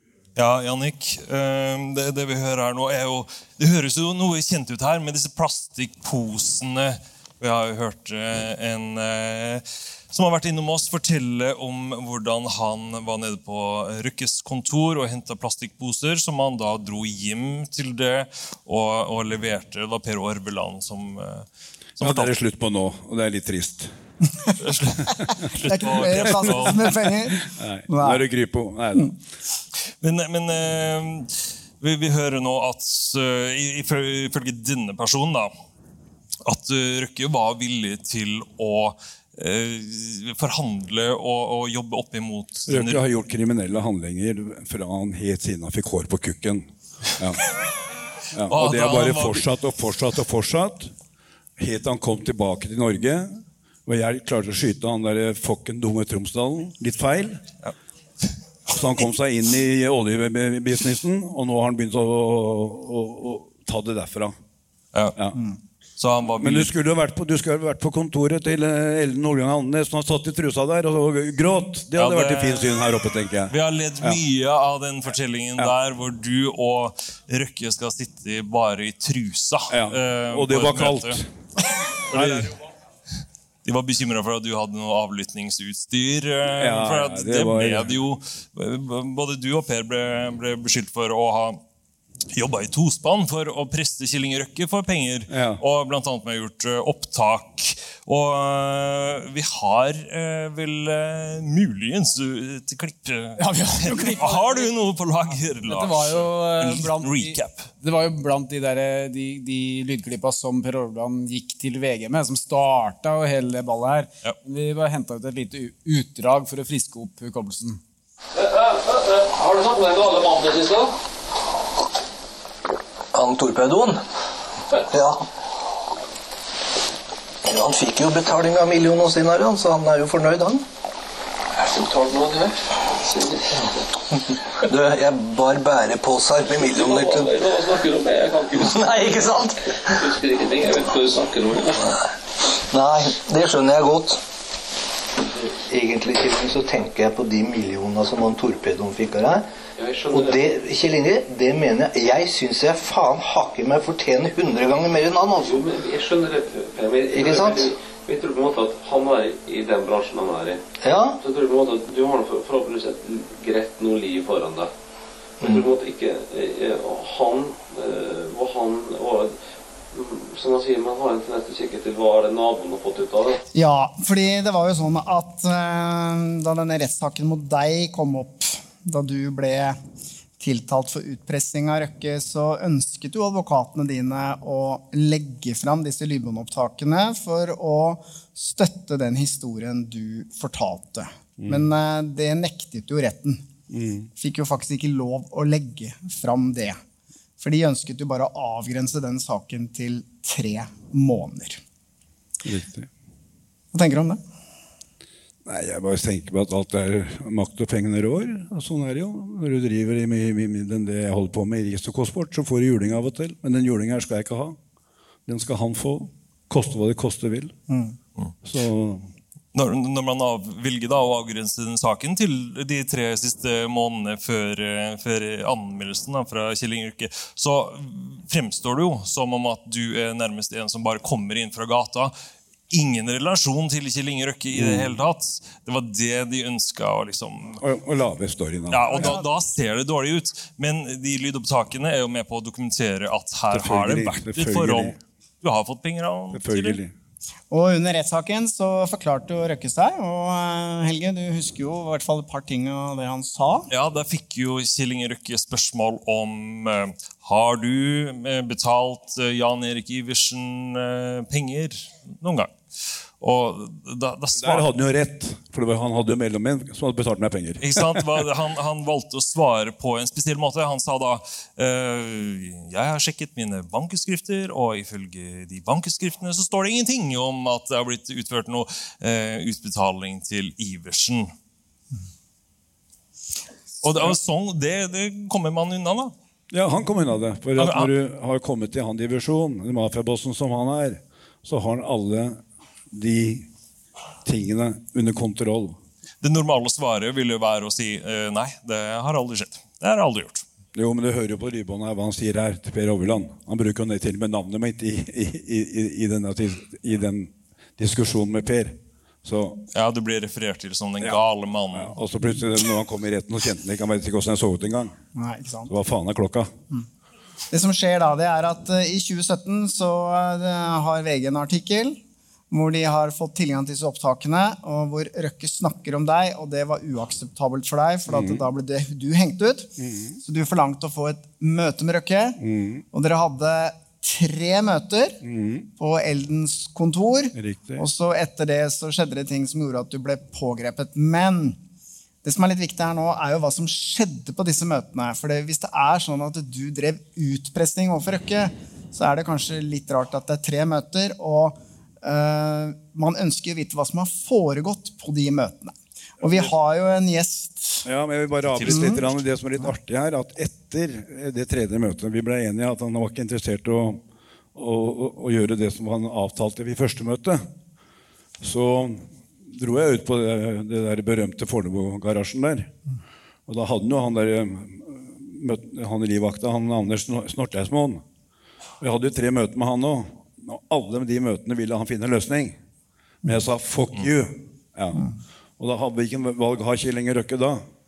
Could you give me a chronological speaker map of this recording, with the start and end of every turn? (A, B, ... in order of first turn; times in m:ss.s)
0:00.4-0:21.5 A
0:22.0-0:22.3 A
0:22.0-0:23.9 B
0:24.6-0:26.9 A
0:25.6-0:27.4 C
0:27.3-0:29.1 B
0:27.9-0:28.3 C
0:30.0-0:35.5 A
0:36.4-0:43.0 A
0:42.7-0:46.6 B
0:48.3-0:50.9 B
0:48.5-0:49.5 A
0:51.6-0:57.4 B
0:58.7-1:04.3 B
1:06.0-1:06.7 A
1:06.4-1:14.2 B
1:12.0-1:12.9 A
1:13.5-1:21.2 A
1:19.7-1:21.3 B
1:22.1-1:22.5 A
1:22.1-1:22.5 B
1:23.6-1:31.6 A
1:26.5-1:27.9 B
1:32.3-1:47.7 A
1:35.3-1:35.6 B
1:43.4-1:44.7 D
1:45.7-1:57.8 D
1:58.4-2:00.9 E
2:03.1-2:04.0 F
2:04.9-2:05.2 F
2:07.4-2:10.6 F
2:11.6-2:12.6 E
2:13.1-2:13.4 E
2:14.6-2:17.4 F
2:16.6-2:19.2 E
2:18.6-2:19.6 F
2:19.8-2:21.9 E
2:22.7-2:24.2 F
2:25.7-2:29.4 F
2:29.8-2:30.4 E
2:30.1-2:35.6 F
2:35.5-2:40.7 E
2:37.1-2:37.7 F
2:40.8-2:41.2 F
2:41.2-2:44.7 E
2:45.4-2:45.7 F
2:45.4-2:49.4 E
2:49.9-2:53.4 E
2:53.5-2:59.8 C
3:00.4-3:13.4 C
3:11.4-3:11.7 B
3:13.7-3:14.1 B
3:14.2-3:16.8 C
3:17.4-3:21.6 C
3:22.4-3:22.9 B
3:23.7-3:24.2 C
3:25.5-3:34.6 B
3:35.3-3:37.5 B
3:37.7-3:38.0 C
3:38.4-3:39.1 B
3:39.5-3:52.1 A
3:52.7-3:57.6 A
3:54.5-3:55.0 B
3:57.6-3:59.1 B
3:58.7-4:06.8 A
3:58.9-3:59.2 C
4:03.5-4:05.0 B
4:06.3-4:06.9 B
4:07.5-4:13.7 C
4:13.7-4:22.6 A
4:23.2-4:24.7 A
4:24.4-4:28.2 B
4:27.6-4:41.3 A
4:43.8-4:46.1 A
4:46.5-4:53.5 B
4:47.6-4:47.9 A
4:54.2-4:55.8 B
4:56.2-5:00.4 A
5:00.8-5:09.6 B
5:09.7-5:12.0 A
5:11.7-5:15.0 B
5:15.2-5:15.7 C
5:15.7-5:16.5 B
5:17.5-5:22.0 C
5:22.5-5:32.4 C
5:28.1-5:28.4 B
5:29.8-5:30.2 B
5:32.4-5:32.8 B
5:32.9-5:35.2 C
5:35.2-5:35.7 B
5:35.8-5:41.6 C
5:37.3-5:37.9 B
5:42.2-5:57.9 C
5:56.2-5:56.5 B
5:57.8-6:04.0 B
5:58.5-5:58.8 A
5:58.7-5:59.0 C
6:04.6-6:07.4 B
6:08.4-6:12.7 B
6:13.5-6:18.0 B
6:18.8-6:22.6 B
6:23.2-6:25.0 B
6:25.6-6:27.7 B